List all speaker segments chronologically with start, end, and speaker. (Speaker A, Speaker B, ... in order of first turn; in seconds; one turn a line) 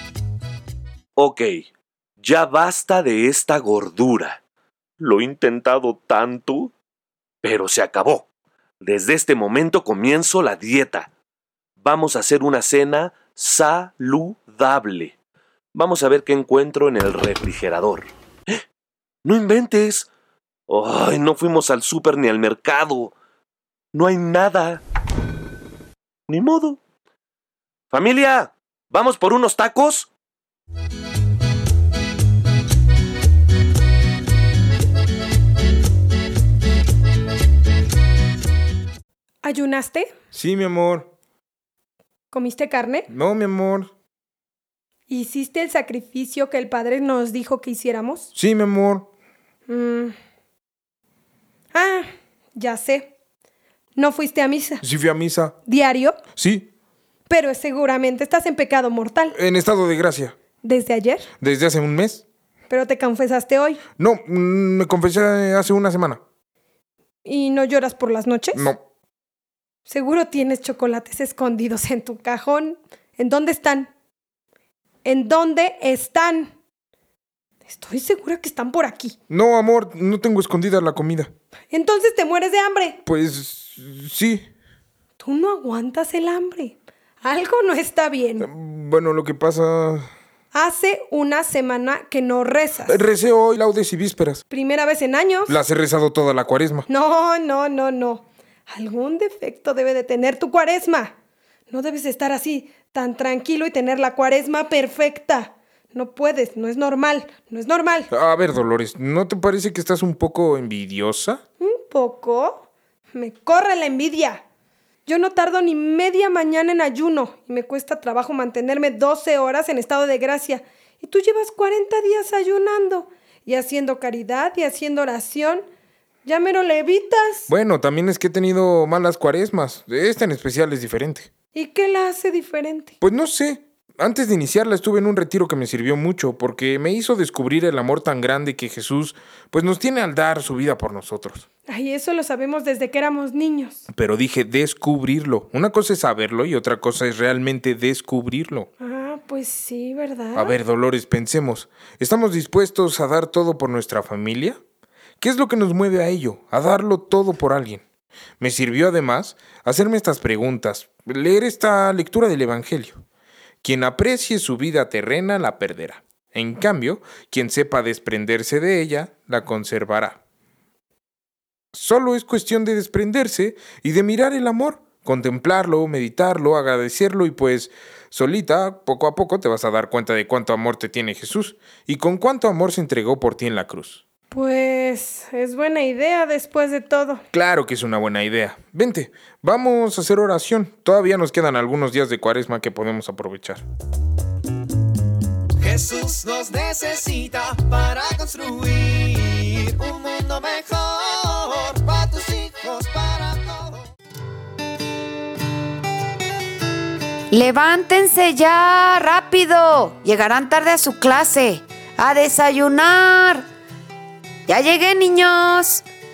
Speaker A: 1.2-1.6
Speaker A: 2.2-4.4
Speaker A: 5.0-6.7
Speaker A: 7.4-8.2
Speaker A: 8.8-11.1
Speaker A: 11.8-15.1
Speaker A: 15.7-18.6
Speaker A: 19.2-20.1
Speaker A: 20.7-23.1
Speaker A: 23.9-24.8
Speaker A: 26.3-26.8
Speaker A: 27.9-30.1
Speaker B: 39.4-40.1
Speaker C: 40.3-41.1
Speaker B: 42.3-43.1
Speaker C: 43.1-43.9
Speaker B: 45.1-48.3
Speaker C: 48.4-49.1
Speaker B: 49.7-50.1
Speaker B: 51.7-53.1
Speaker B: 54.0-54.8
Speaker C: 54.8-55.6
Speaker B: 55.7-56.2
Speaker C: 56.4-56.7
Speaker B: 57.3-59.4
Speaker C: 59.4-60.4
Speaker B: 60.6-61.3
Speaker C: 61.4-62.2
Speaker B: 62.7-63.8
Speaker C: 64.0-66.2
Speaker B: 67.2-68.7
Speaker C: 68.5-68.8
Speaker B: 69.9-73.9
Speaker B: 75.0-76.5
Speaker B: 77.7-79.2
Speaker C: 79.3-81.3
Speaker B: 81.7-83.0
Speaker C: 83.1-84.5
Speaker B: 85.2-88.5
Speaker C: 88.4-90.1
Speaker B: 90.5-93.0
Speaker C: 92.9-94.4
Speaker B: 94.5-95.5
Speaker C: 95.5-96.9
Speaker B: 96.9-101.1
Speaker B: 101.7-108.1
Speaker C: 108.1-111.4
Speaker B: 111.6-114.4
Speaker B: 115.0-125.6
Speaker B: 126.2-127.5
Speaker C: 127.5-131.3
Speaker B: 131.5-132.9
Speaker C: 133.0-141.4
Speaker B: 141.7-143.8
Speaker C: 143.9-148.7
Speaker B: 148.8-150.6
Speaker C: 150.3-154.6
Speaker C: 155.2-157.8
Speaker C: 158.4-163.0
Speaker C: 163.6-170.2
Speaker C: 171.7-184.0
Speaker B: 184.3-187.2
Speaker C: 187.3-193.6
Speaker D: 195.6-203.8
Speaker E: 207.3-213.5
Speaker E: 214.5-215.8